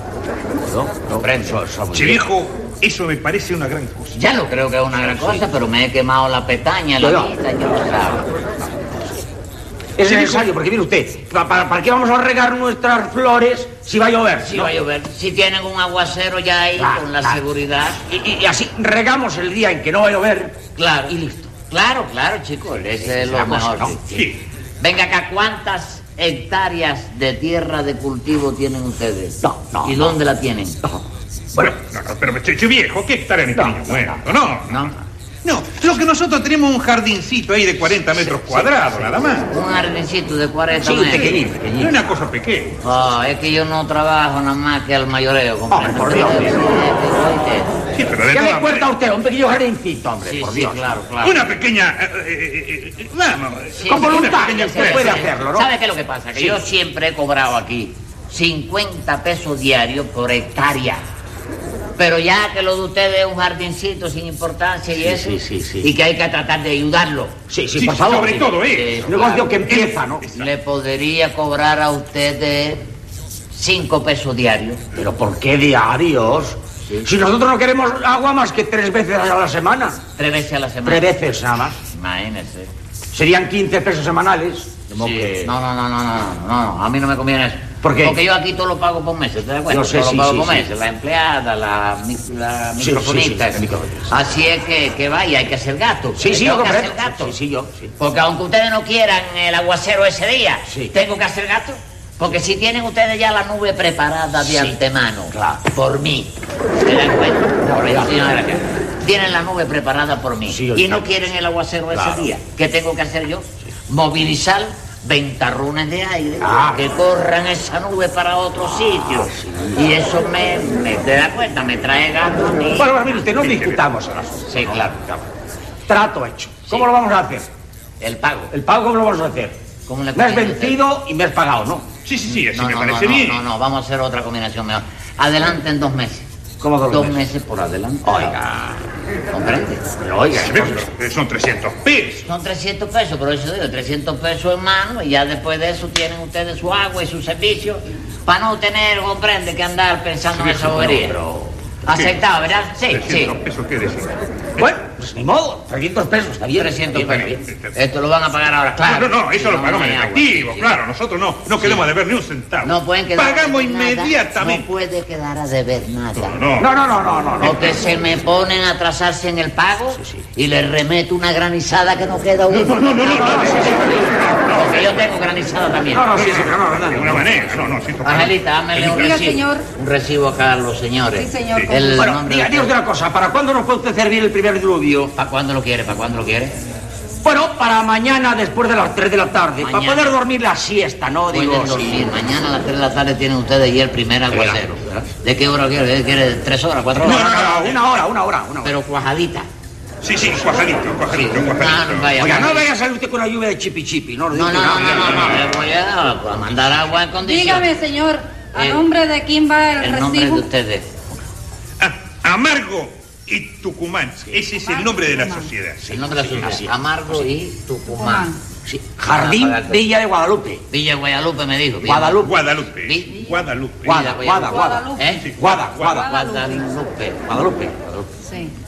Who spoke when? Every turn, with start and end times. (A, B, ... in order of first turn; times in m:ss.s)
0:00.6-0:02.2 A
0:01.2-0:01.6 B
0:01.9-0:04.2 C
0:04.1-0:08.3 B
0:05.1-0:05.4 A
0:07.0-0:07.3 A
0:10.0-0:14.7 A
0:10.1-0:10.4 B
0:14.4-0:18.0 B
0:16.8-0:17.4 A
0:18.1-0:21.5 A
0:20.8-0:21.1 B
0:21.7-0:24.3 B
0:23.0-0:24.0 A
0:24.1-0:24.4 C
0:24.8-0:30.8 B
0:29.4-0:30.2 A
0:31.6-0:39.5 C
0:33.6-0:34.2 A
0:34.7-0:34.9 B
0:38.2-0:39.1 A
0:39.5-0:41.4 B
0:40.8-0:42.0 A
0:41.3-0:42.8 C
0:42.8-0:47.7 B
0:45.7-0:46.6 A
0:47.9-0:48.9 C
0:48.3-0:51.0 A
0:50.2-0:51.5 B
0:51.2-0:55.3 C
0:53.8-1:01.0 B
0:53.9-0:55.7 A
1:02.0-1:07.4 B
1:04.9-1:05.9 A
1:07.5-1:10.3 A
1:07.8-1:10.5 C
1:08.6-1:09.6 B
1:10.3-1:12.8 B
1:13.5-1:14.8 B
1:15.0-1:20.0 A
1:20.2-1:21.1 B
1:20.8-1:21.8 A
1:21.9-1:22.7 B
1:23.1-1:25.5 A
1:25.0-1:37.4 B
1:27.8-1:28.2 A
1:29.7-1:30.7 A
1:32.8-1:34.1 A
1:36.2-1:37.9 A
1:38.0-2:03.2 B
1:40.7-1:40.9 A
1:44.4-1:44.7 A
1:45.3-1:45.6 A
1:47.6-1:48.2 A
1:50.5-1:51.1 A
1:51.9-1:52.3 A
1:56.4-1:56.8 A
1:59.1-2:00.0 A
2:02.8-2:05.3 A
2:03.3-2:03.9 C
2:04.5-2:04.9 B
2:05.9-2:07.5 A
2:08.0-2:08.5 B
2:08.5-2:09.6 A
2:09.9-2:10.8 B
2:10.2-2:11.9 A
2:12.0-2:13.4 C
2:12.3-2:16.3 B
2:16.6-2:17.2 A
2:16.9-2:18.4 B
2:18.0-2:18.8 A
2:19.3-2:19.8 B
2:20.0-2:20.9 A
2:20.3-2:22.3 C
2:22.3-2:31.2 B
2:30.4-2:31.5 A
2:31.8-2:33.4 B
2:32.9-2:34.7 C
2:34.6-2:37.3 A
2:36.6-2:40.8 B
2:37.1-2:37.7 C
2:38.8-2:44.7 C
2:42.6-2:46.4 B
2:46.2-2:46.7 C
2:46.6-2:47.8 A
2:47.4-2:53.7 B
2:50.0-2:50.2 A
2:52.5-2:54.8 C
2:52.9-2:54.7 A
2:54.5-2:56.4 B
2:55.9-2:57.7 A
2:56.1-2:58.9 C
2:58.0-3:02.8 B
2:58.8-2:59.7 D
3:01.1-3:02.1 D
3:02.0-3:05.1 A
3:05.1-3:06.6 B
3:07.2-3:12.0 A
3:09.6-3:10.2 B
3:11.3-3:17.4 B
3:14.3-3:15.1 A
3:17.0-3:18.7 A
3:17.0-3:18.0 C
3:18.6-3:19.5 B
3:20.0-3:22.4 C
3:21.1-3:22.7 B
3:22.2-3:25.5 A
3:24.3-3:27.7 B
3:27.2-3:30.5 D
3:28.6-3:28.8 B
3:29.8-3:30.9 B
3:31.8-3:35.9 C
3:34.5-3:35.5 D
3:35.8-3:37.3 A
3:35.9-3:38.3 B
3:37.9-3:38.4 D
3:38.7-3:40.6 A
3:39.1-3:39.8 B
3:40.7-3:43.3 B
3:41.8-3:42.4 A
3:42.2-3:44.1 C
3:43.8-3:46.1 A
3:43.8-3:45.3 B
3:44.4-3:45.2 D
3:45.2-3:46.0 C
3:45.9-3:47.2 B
3:45.9-3:46.6 D
3:47.3-3:48.1 A
3:48.2-3:48.5 D